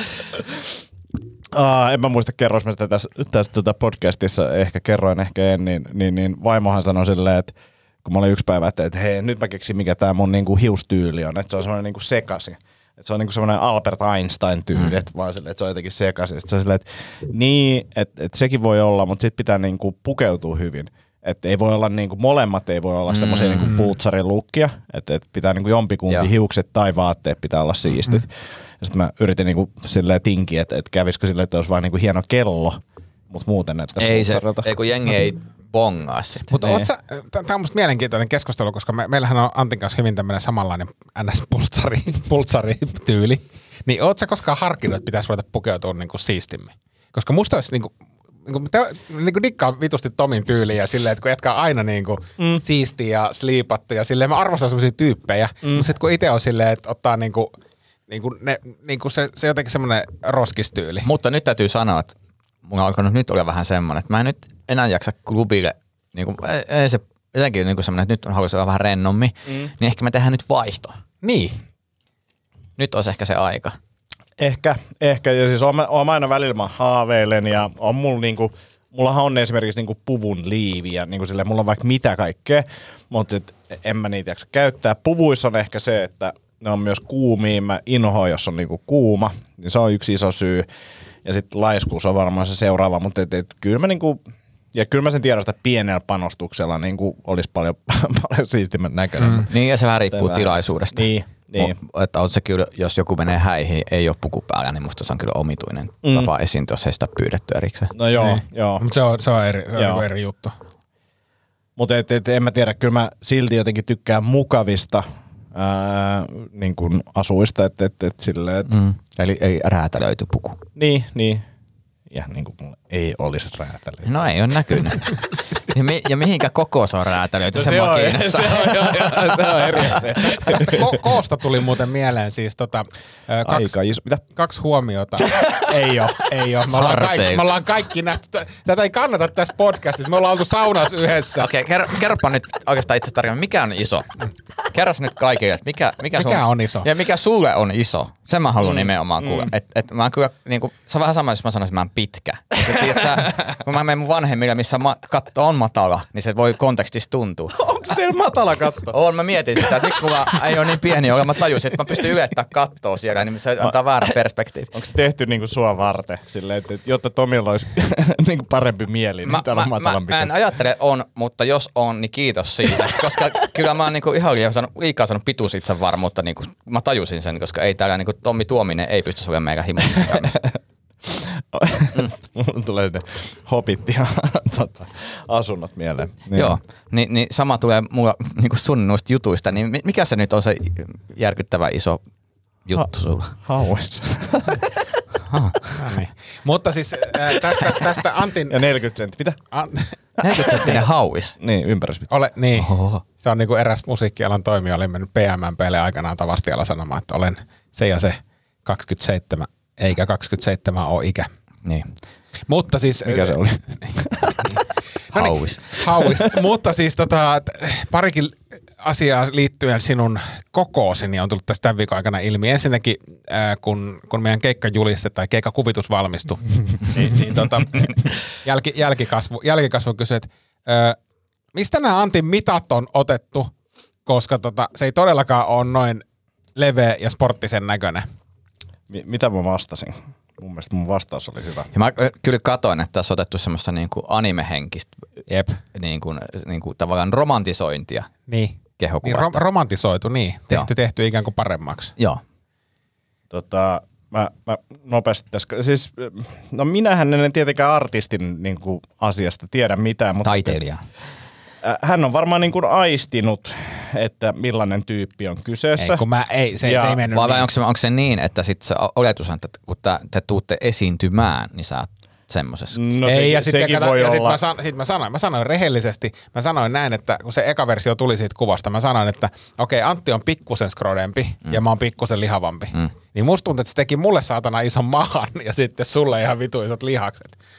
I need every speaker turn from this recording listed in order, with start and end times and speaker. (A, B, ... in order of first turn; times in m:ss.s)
0:01.5-0:34.7 A
0:23.1-0:23.8 B
0:34.0-0:36.6 B
0:36.5-0:47.9 C
0:36.6-0:36.9 A
0:48.4-0:57.5 C
0:55.6-0:55.9 A
0:58.1-1:01.1 C
1:01.0-1:11.0 B
1:11.2-1:11.6 C
1:12.8-1:13.8 B
1:14.4-1:30.7 A
1:31.2-1:34.2 A
1:34.7-1:39.5 A
1:39.2-1:39.5 C
1:39.4-1:47.9 B
1:40.1-1:41.8 A
1:46.0-1:46.3 A
1:47.9-1:48.8 A
1:48.1-1:50.6 C
1:49.7-1:50.0 A
1:51.8-1:58.7 A
1:58.6-2:00.6 B
2:00.8-2:01.4 A
2:02.1-2:04.1 A
2:04.0-2:10.0 B
2:07.5-2:11.0 A
2:10.3-2:13.7 C
2:13.4-2:14.2 A
2:14.3-2:21.5 C
2:16.7-2:17.4 B
2:21.4-2:24.1 B
2:24.7-2:37.6 B
2:26.1-2:26.9 C
2:28.6-2:29.5 A
2:32.7-2:33.5 A
2:37.5-2:39.0 A
2:38.9-2:44.7 B
2:39.5-2:40.8 A
2:41.9-2:42.2 A
2:44.7-2:50.4 A
2:49.2-3:00.4 B
2:52.8-2:53.1 A
3:00.0-3:00.4 A
3:01.0-3:06.6 A
3:06.3-3:12.0 B
3:12.6-3:13.4 B
3:12.7-3:14.9 A
3:15.2-3:15.6 B
3:15.7-3:18.6 C
3:18.5-3:19.4 A
3:19.5-3:20.8 C
3:20.2-3:21.4 B
3:20.3-3:20.8 A
3:21.4-3:22.1 A
3:22.1-3:31.3 C
3:22.6-3:23.0 B
3:32.5-3:33.9 C
3:33.0-3:34.5 A
3:35.1-3:51.0 C
3:35.1-3:35.8 B
3:36.0-3:36.3 A
3:51.5-3:53.5 C
3:54.0-3:56.0 C
3:56.6-3:58.1 C
3:58.9-4:01.7 A
4:01.7-4:05.0 B
4:05.3-4:05.6 C
4:05.7-4:08.1 B
4:08.3-4:11.9 C
4:08.8-4:09.4 B
4:13.3-4:20.6 A
4:20.2-4:20.8 B
4:21.6-4:26.0 A
4:25.8-4:27.5 C
4:26.6-4:27.0 A
4:27.1-4:32.8 B
4:32.7-4:34.4 A
4:33.0-4:47.4 C